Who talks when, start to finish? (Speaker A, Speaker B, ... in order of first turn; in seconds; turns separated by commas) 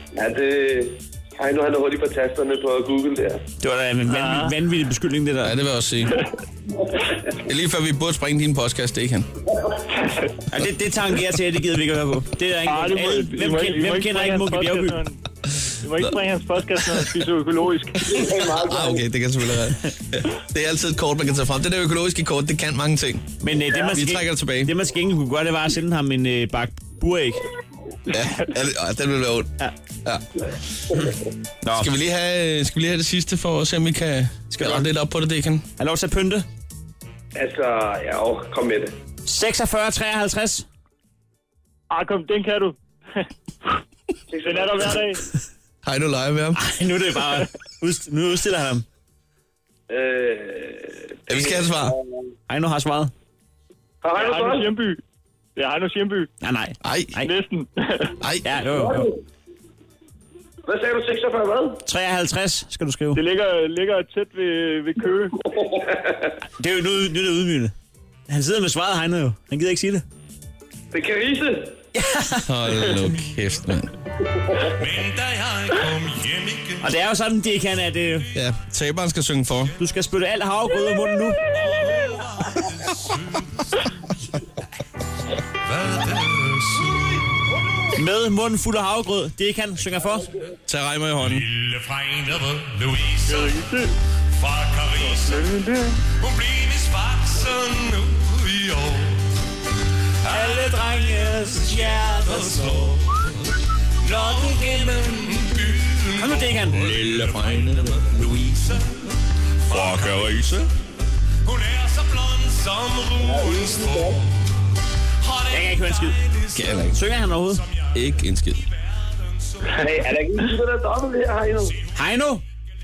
Speaker A: 0.1-3.4, Speaker B: 3.6-5.5, Speaker C: 4.1-4.5, Speaker D: 5.4-6.2, Speaker D: 7.4-9.3, Speaker B: 10.5-15.0, Speaker C: 12.7-15.2, Speaker C: 15.8-18.3, Speaker D: 16.8-17.2, Speaker A: 18.1-19.0, Speaker D: 18.1-24.7, Speaker B: 23.4-27.4, Speaker D: 28.1-30.9, Speaker B: 31.6-31.9, Speaker D: 31.7-35.6, Speaker B: 34.5-34.9, Speaker B: 35.8-36.5, Speaker A: 37.4-38.9, Speaker B: 39.3-40.7, Speaker C: 41.9-43.2, Speaker A: 44.3-45.0, Speaker C: 44.4-45.2, Speaker D: 45.9-46.6, Speaker B: 46.6-48.9, Speaker A: 49.9-51.9, Speaker D: 51.3-52.0, Speaker B: 52.5-53.1, Speaker A: 54.0-54.7, Speaker C: 54.1-55.0, Speaker C: 55.6-56.3, Speaker B: 56.4-57.3, Speaker D: 56.8-57.1, Speaker C: 57.2-58.1, Speaker D: 58.2-58.5, Speaker B: 58.4-59.1, Speaker A: 58.8-59.1, Speaker A: 60.7-61.8, Speaker B: 61.8-63.2, Speaker C: 63.1-65.5, Speaker A: 65.6-66.3, Speaker B: 66.6-67.7, Speaker B: 68.3-70.0, Speaker A: 70.9-71.8, Speaker B: 71.9-72.5, Speaker D: 72.5-73.9, Speaker E: 74.6-77.0, Speaker B: 76.8-78.3, Speaker D: 78.3-79.8, Speaker B: 79.8-81.5, Speaker E: 81.5-83.8, Speaker E: 85.6-87.3, Speaker B: 87.9-90.3, Speaker D: 90.7-91.5, Speaker E: 91.2-93.6, Speaker C: 93.3-93.9, Speaker E: 94.3-95.5, Speaker C: 95.0-96.0, Speaker E: 96.2-99.3, Speaker E: 100.2-109.1, Speaker B: 100.3-102.9, Speaker B: 104.3-105.1, Speaker B: 106.2-106.9, Speaker D: 106.7-108.6, Speaker E: 109.7-110.7, Speaker D: 109.7-110.6, Speaker E: 111.4-119.8, Speaker A: 113.2-114.2, Speaker B: 115.5-116.2, Speaker D: 116.5-117.0, Speaker B: 116.9-117.6, Speaker D: 117.9-118.6, Speaker A: 119.8-121.8, Speaker E: 121.7-122.0, Speaker B: 122.0-122.4